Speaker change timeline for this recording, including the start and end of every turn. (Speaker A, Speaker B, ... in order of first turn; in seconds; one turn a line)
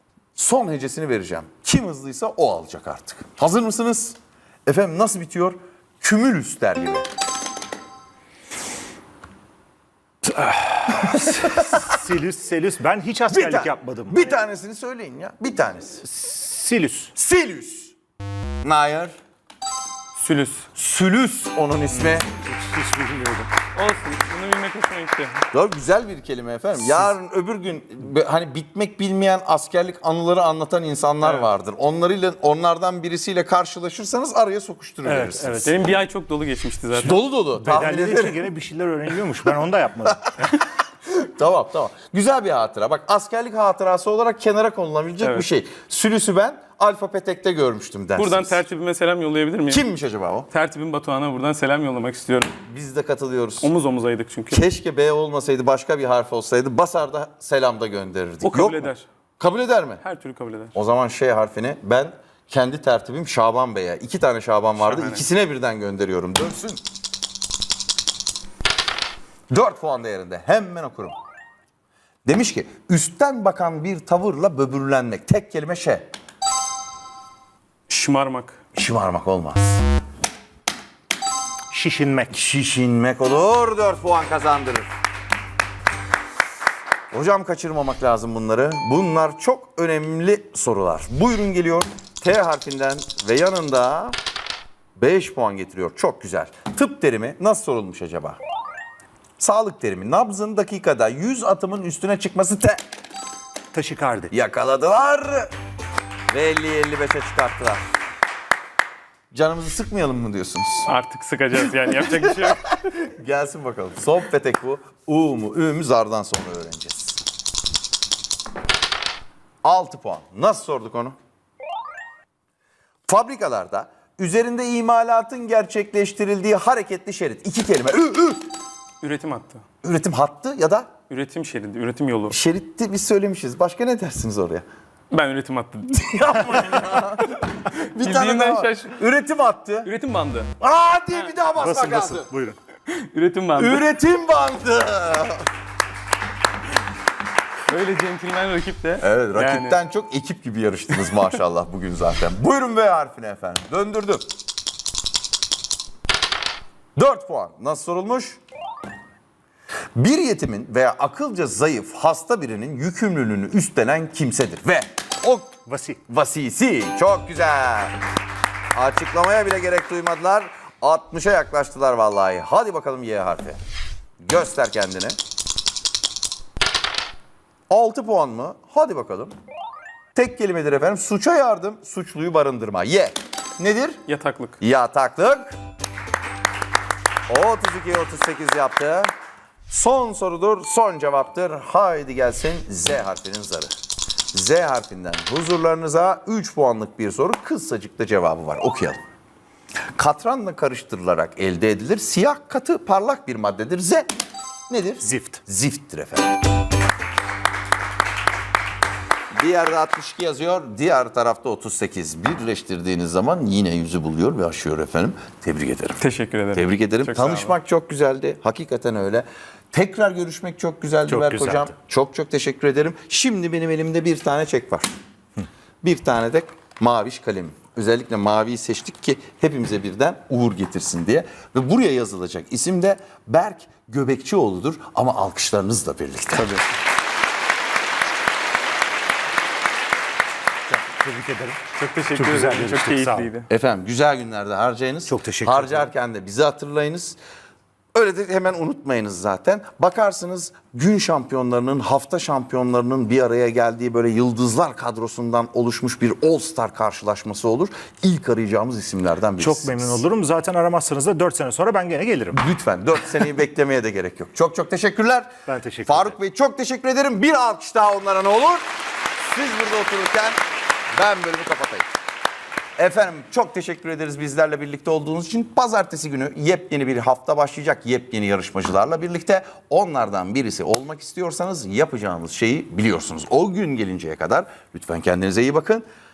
Speaker A: 0.3-7.1
Speaker B: 10.2-14.3
Speaker A: 11.1-11.9
Speaker A: 13.3-16.0
Speaker B: 16.0-17.1
Speaker A: 17.1-17.9
Speaker A: 18.6-19.2
Speaker C: 20.2-20.7
Speaker A: 20.7-22.3
Speaker B: 21.9-23.5
Speaker C: 23.8-25.4
Speaker A: 25.5-35.9
Speaker B: 26.8-27.1
Speaker C: 31.2-31.5
Speaker B: 35.0-35.8
Speaker C: 35.6-37.2
Speaker A: 37.0-38.4
Speaker B: 37.6-40.2
Speaker A: 41.1-48.6
Speaker C: 45.2-45.5
Speaker C: 48.2-49.8
Speaker A: 49.7-50.5
Speaker C: 50.5-52.5
Speaker A: 52.6-53.7
Speaker C: 53.6-54.6
Speaker A: 54.5-60.0
Speaker C: 58.4-59.1
Speaker C: 60.0-60.7
Speaker A: 60.8-66.8
Speaker C: 64.8-65.2
Speaker A: 69.5-71.2
Speaker A: 72.3-76.1
Speaker C: 77.9-78.6
Speaker A: 78.8-79.8
Speaker B: 81.7-82.4
Speaker A: 82.3-84.9
Speaker A: 87.1-94.2
Speaker A: 95.0-98.4
Speaker A: 99.4-102.8
Speaker B: 103.7-104.3
Speaker A: 104.3-105.5
Speaker A: 106.3-107.8
Speaker A: 109.3-110.9
Speaker C: 110.9-112.7
Speaker A: 111.9-117.2
Speaker A: 119.6-121.2
Speaker A: 123.1-128.4
Speaker C: 129.0-129.6
Speaker A: 129.8-130.9
Speaker C: 131.1-132.4
Speaker A: 132.3-134.7
Speaker C: 135.1-136.2
Speaker A: 136.0-139.9
Speaker C: 137.7-139.0
Speaker C: 139.8-140.5
Speaker A: 140.6-142.3
Speaker B: 141.6-142.6
Speaker C: 142.9-143.9
Speaker A: 143.6-145.4
Speaker C: 147.7-149.8
Speaker A: 149.0-154.3
Speaker A: 157.0-158.4
Speaker A: 160.0-165.6
Speaker B: 165.7-166.0
Speaker A: 166.1-168.0
Speaker A: 168.8-173.6
Speaker A: 174.2-175.2
Speaker A: 177.7-179.3
Speaker A: 180.2-184.0
Speaker C: 184.1-184.6
Speaker A: 184.6-185.6
Speaker A: 187.3-189.1
Speaker A: 189.7-193.7
Speaker A: 194.3-199.0
Speaker A: 200.0-204.1
Speaker A: 204.7-206.3
Speaker B: 205.0-205.4
Speaker A: 209.3-224.9
Speaker C: 216.0-217.5
Speaker B: 221.1-221.7
Speaker A: 225.8-236.6
Speaker C: 236.3-236.6
Speaker B: 240.7-241.6
Speaker C: 241.8-243.5
Speaker B: 242.1-243.3
Speaker A: 243.5-247.2
Speaker B: 245.1-245.9
Speaker A: 247.9-260.0
Speaker B: 259.4-262.4
Speaker A: 262.3-265.3
Speaker B: 265.5-266.1
Speaker A: 265.9-268.6
Speaker A: 269.2-270.4
Speaker A: 270.9-271.9
Speaker A: 272.8-285.8